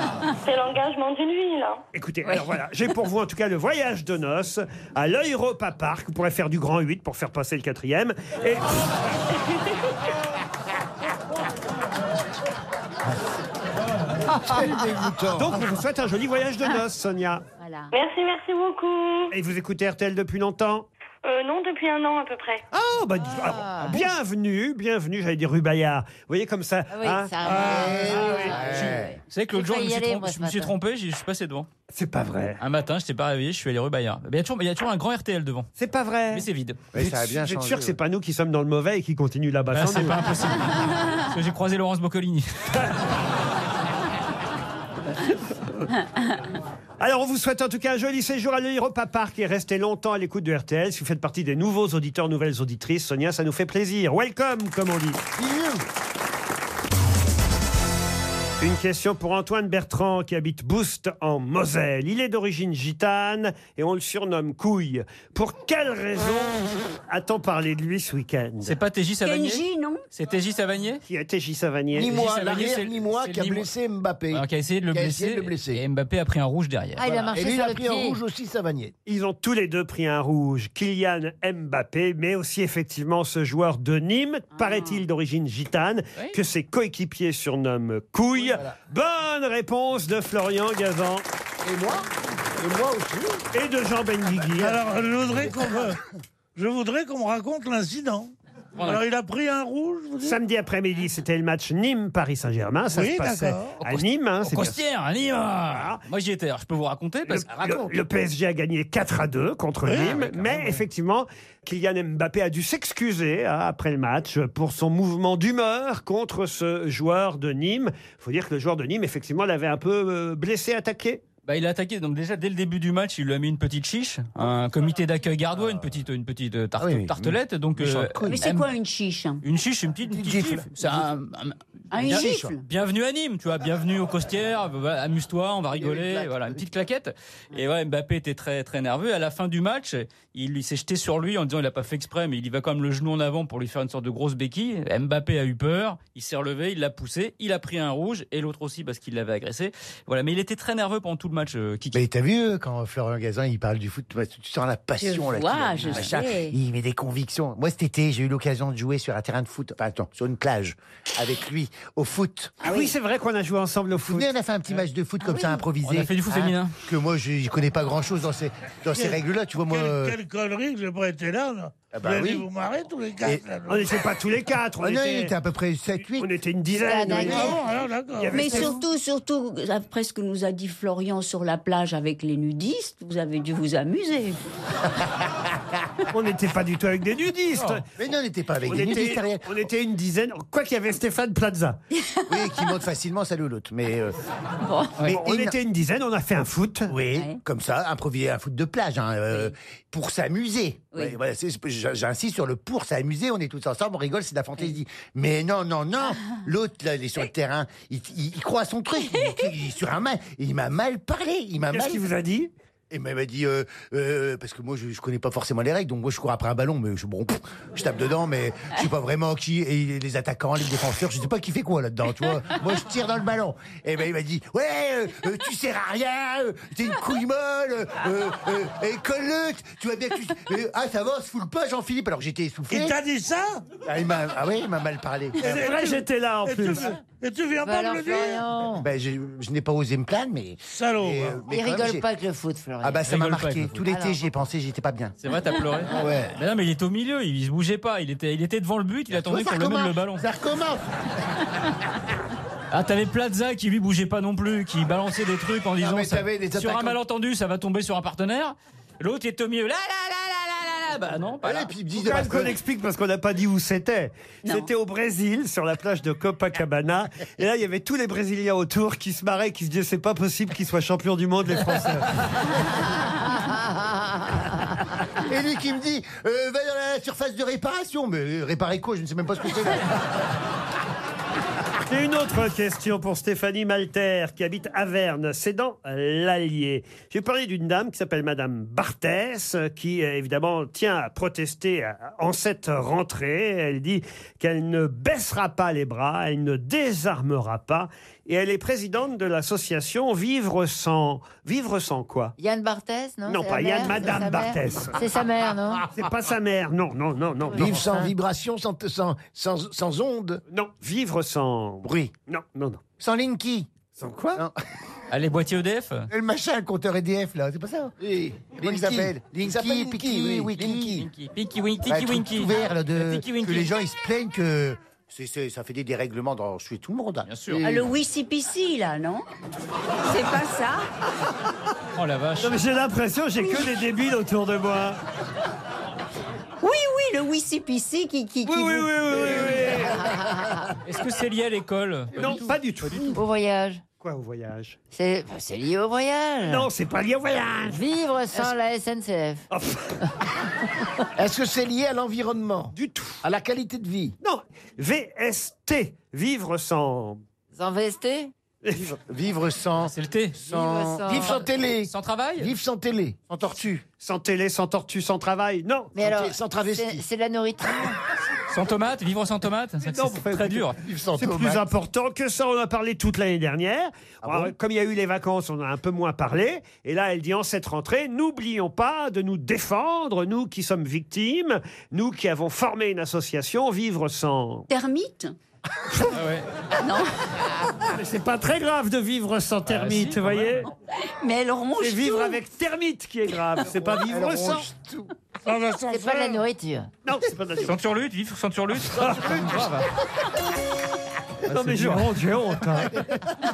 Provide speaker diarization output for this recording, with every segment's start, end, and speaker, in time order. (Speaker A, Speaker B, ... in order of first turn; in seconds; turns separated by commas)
Speaker A: 0.4-1.8, Speaker B: 1.9-8.9, Speaker C: 14.3-15.6, Speaker B: 15.3-17.4, Speaker D: 17.6-17.9, Speaker A: 17.9-19.3, Speaker B: 19.3-20.9, Speaker A: 21.2-22.6, Speaker B: 22.7-28.6, Speaker E: 23.3-24.1, Speaker E: 26.9-30.7, Speaker F: 27.7-29.1, Speaker G: 28.7-31.7, Speaker B: 31.9-32.6, Speaker G: 32.6-35.7, Speaker B: 35.8-40.4, Speaker G: 36.3-36.8, Speaker F: 36.9-38.0, Speaker G: 39.7-42.9, Speaker B: 47.0-55.2, Speaker F: 55.4-55.8, Speaker B: 58.6-68.8, Speaker G: 68.6-71.0, Speaker D: 69.2-70.0, Speaker B: 71.0-72.1, Speaker C: 71.9-75.8, Speaker G: 72.1-73.7, Speaker G: 74.3-77.0, Speaker E: 77.0-78.2, Speaker C: 77.1-78.9, Speaker B: 79.1-91.2, Speaker D: 84.5-85.0, Speaker C: 88.3-88.8, Speaker C: 91.6-92.0, Speaker C: 92.6-93.4, Speaker B: 93.5-94.8, Speaker H: 94.6-96.0, Speaker H: 96.5-100.4, Speaker G: 98.8-99.0, Speaker B: 100.2-104.8, Speaker H: 102.9-103.8, Speaker G: 103.8-107.7, Speaker B: 105.7-106.0, Speaker B: 107.2-121.2, Speaker H: 109.8-110.2, Speaker G: 109.9-110.6, Speaker G: 121.5-128.7, Speaker F: 126.8-128.5, Speaker D: 128.2-129.4, Speaker G: 129.4-152.0, Speaker F: 130.2-130.7, Speaker D: 131.9-132.6, Speaker F: 132.0-132.5, Speaker C: 135.8-136.6, Speaker F: 151.9-162.5, Speaker D: 155.0-156.6, Speaker D: 162.6-162.9, Speaker B: 162.6-164.3, Speaker F: 163.9-170.2, Speaker D: 165.3-165.5, Speaker G: 165.8-166.7, Speaker H: 168.9-174.0, Speaker F: 171.9-172.5, Speaker B: 173.7-175.3, Speaker F: 174.8-176.3, Speaker B: 176.2-177.6, Speaker E: 176.7-177.6, Speaker F: 177.1-177.5, Speaker H: 177.2-178.4, Speaker B: 178.2-178.8, Speaker D: 178.3-184.4, Speaker B: 186.1-187.8, Speaker G: 187.5-187.8, Speaker F: 187.9-189.7, Speaker B: 188.7-191.8, Speaker F: 192.3-194.2, Speaker D: 194.6-194.9, Speaker F: 195.0-195.5, Speaker B: 195.1-196.9, Speaker F: 196.9-212.0, Speaker D: 197.1-197.4, Speaker D: 209.1-209.4, Speaker B: 211.7-212.5, Speaker F: 212.9-233.0, Speaker H: 232.7-233.6, Speaker F: 233.8-235.5, Speaker H: 235.4-238.4, Speaker B: 235.4-236.9, Speaker E: 237.6-238.9, Speaker F: 238.8-242.1, Speaker H: 240.7-241.4, Speaker E: 241.4-243.1, Speaker F: 242.8-245.1, Speaker G: 243.1-243.9, Speaker E: 243.8-244.2, Speaker G: 245.2-250.2, Speaker C: 245.9-246.4, Speaker F: 249.1-250.8, Speaker G: 252.7-261.7, Speaker C: 255.8-257.0, Speaker F: 261.4-262.5, Speaker B: 261.9-272.1, Speaker F: 275.2-279.9, Speaker B: 281.8-302.3, Speaker E: 302.4-305.9, Speaker B: 303.3-305.0, Speaker B: 305.9-308.1, Speaker E: 307.5-308.1, Speaker C: 307.5-310.4, Speaker B: 310.5-312.8, Speaker F: 311.8-312.1, Speaker F: 313.0-313.7, Speaker B: 314.0-314.4, Speaker G: 315.1-316.1, Speaker F: 316.1-317.9, Speaker C: 318.0-321.1, Speaker F: 318.5-321.1, Speaker G: 321.0-323.7, Speaker F: 321.8-327.3, Speaker G: 327.2-327.6, Speaker C: 327.5-327.8, Speaker D: 327.6-329.2, Speaker D: 330.1-330.9, Speaker G: 331.9-332.6, Speaker B: 332.4-335.0, Speaker D: 336.6-338.9, Speaker B: 338.4-340.1, Speaker E: 340.0-340.6, Speaker G: 340.8-343.1, Speaker B: 342.1-343.1, Speaker E: 343.1-343.8, Speaker B: 344.0-344.8, Speaker E: 344.9-346.7, Speaker B: 346.4-347.8, Speaker E: 347.7-349.4, Speaker B: 349.5-350.1, Speaker C: 351.2-354.1, Speaker B: 352.7-353.2, Speaker B: 354.2-357.2, Speaker E: 357.5-358.3, Speaker B: 358.6-358.9, Speaker F: 358.7-361.3, Speaker G: 359.8-360.4, Speaker E: 360.4-361.5, Speaker C: 361.1-363.2, Speaker G: 361.8-362.5, Speaker F: 363.3-363.8, Speaker B: 364.0-365.9, Speaker E: 365.9-368.0, Speaker C: 366.0-367.0, Speaker G: 368.5-370.8, Speaker B: 369.8-370.6, Speaker C: 370.8-371.6, Speaker B: 371.2-384.7, Speaker F: 374.2-374.5, Speaker D: 384.7-385.4, Speaker G: 386.1-386.5, Speaker D: 386.8-387.1, Speaker B: 387.9-390.7, Speaker G: 389.7-390.6, Speaker D: 391.1-392.4, Speaker B: 391.8-394.7, Speaker F: 394.0-395.1, Speaker H: 395.4-396.4, Speaker E: 395.9-396.9, Speaker B: 397.0-397.8, Speaker G: 397.6-399.9, Speaker B: 398.9-399.6, Speaker B: 401.5-403.0, Speaker G: 401.6-402.0